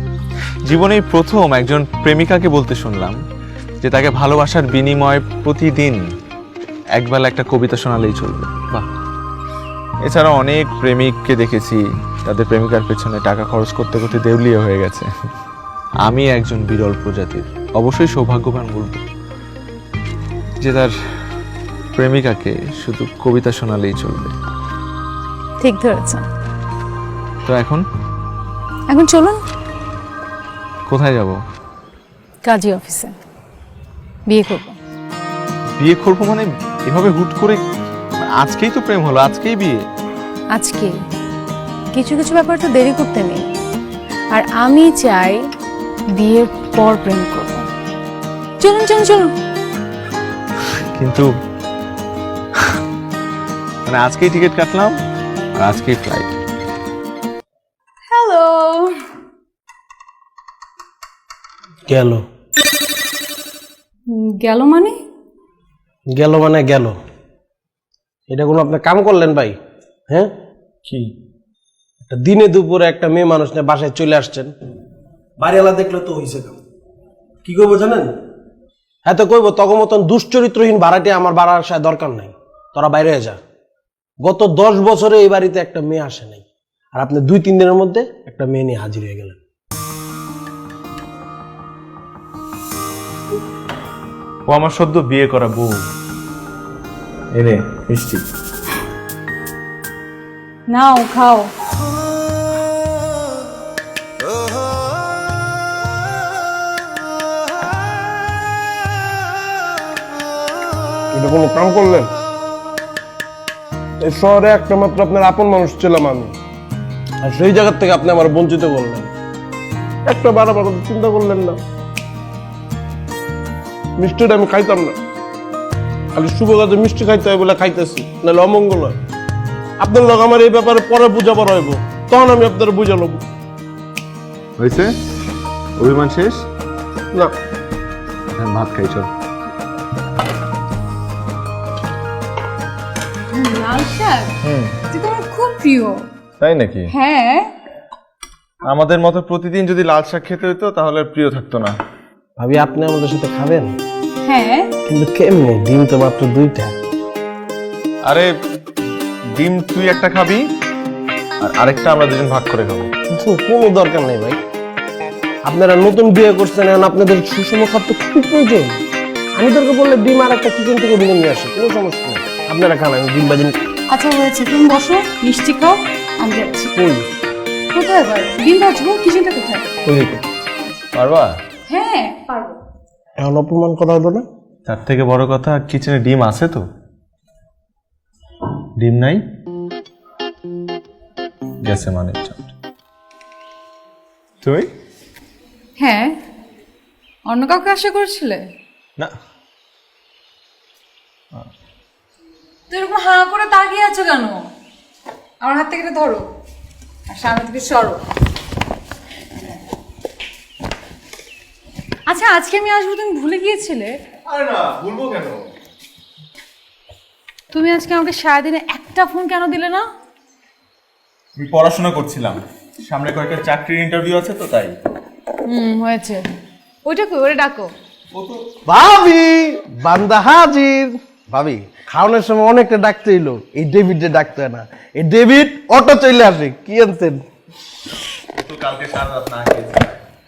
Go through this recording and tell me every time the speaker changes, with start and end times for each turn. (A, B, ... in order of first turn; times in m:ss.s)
0:00.7-0:03.2 A
0:03.8-0:06.0 A
0:07.0-0:08.9 A
0:10.0-0:15.1 A
0:16.0-0:19.0 A
0:20.6-0:20.9 A
0:22.0-0:24.3 A
0:25.6-0:26.2 B
0:27.4-0:27.8 A
0:28.9-0:29.4 B
0:30.9-0:31.4 A
0:32.4-0:33.1 B
0:34.3-0:34.8 B
0:35.7-0:37.6 A
0:38.2-0:39.8 A
0:40.5-0:41.0 B
0:41.9-0:43.5 B
0:44.3-0:45.4 B
0:46.1-0:47.7 B
0:48.6-0:49.3 B
0:50.9-0:51.3 A
0:53.8-0:54.9 A
0:55.6-0:56.3 A
0:58.1-0:59.0 B
1:01.9-1:02.2 C
1:04.1-1:05.0 B
1:06.1-1:07.0 C
1:08.3-1:09.6 C
1:12.1-1:14.5 C
1:15.4-1:16.6 C
1:17.4-1:18.2 C
1:19.0-1:23.4 C
1:24.2-1:29.4 C
1:34.5-1:35.8 A
1:37.3-1:38.2 A
1:40.7-1:41.5 B
1:51.1-1:52.1 C
1:54.0-1:56.3 C
1:57.2-1:59.1 C
2:00.0-2:01.6 C
2:04.0-2:05.0 C
2:06.1-2:09.0 C
2:09.8-2:13.2 C
2:14.6-2:14.9 A
2:15.8-2:16.4 A
2:18.3-2:19.1 A
2:23.3-2:24.4 B
2:24.4-2:24.7 A
2:24.9-2:26.0 B
2:26.4-2:26.9 A
2:26.9-2:27.5 B
2:28.6-2:31.8 A
2:32.4-2:33.7 C
2:34.2-2:34.7 B
2:34.9-2:36.8 C
2:39.3-2:40.4 A
2:41.4-2:42.9 A
2:43.1-2:44.4 C
2:45.4-2:48.8 C
2:49.4-2:53.5 C
2:53.9-2:56.7 B
2:56.8-2:57.0 C
2:57.7-2:59.7 B
2:59.8-3:00.2 A
3:00.9-3:01.4 A
3:01.7-3:02.6 B
3:03.2-3:04.2 C
3:04.6-3:06.6 A
3:08.8-3:09.2 A
3:11.6-3:12.4 A
3:14.4-3:14.7 A
3:15.8-3:16.2 B
3:17.3-3:18.4 B
3:22.7-3:24.4 B
3:25.4-3:26.2 B
3:27.1-3:28.0 B
3:32.1-3:34.0 B
3:34.3-3:35.5 A
3:37.5-3:39.8 B
3:41.4-3:44.8 A
3:45.4-3:46.2 B
3:46.8-3:47.7 B
3:48.1-3:48.4 A
3:48.6-3:57.2 C
3:58.3-3:59.9 A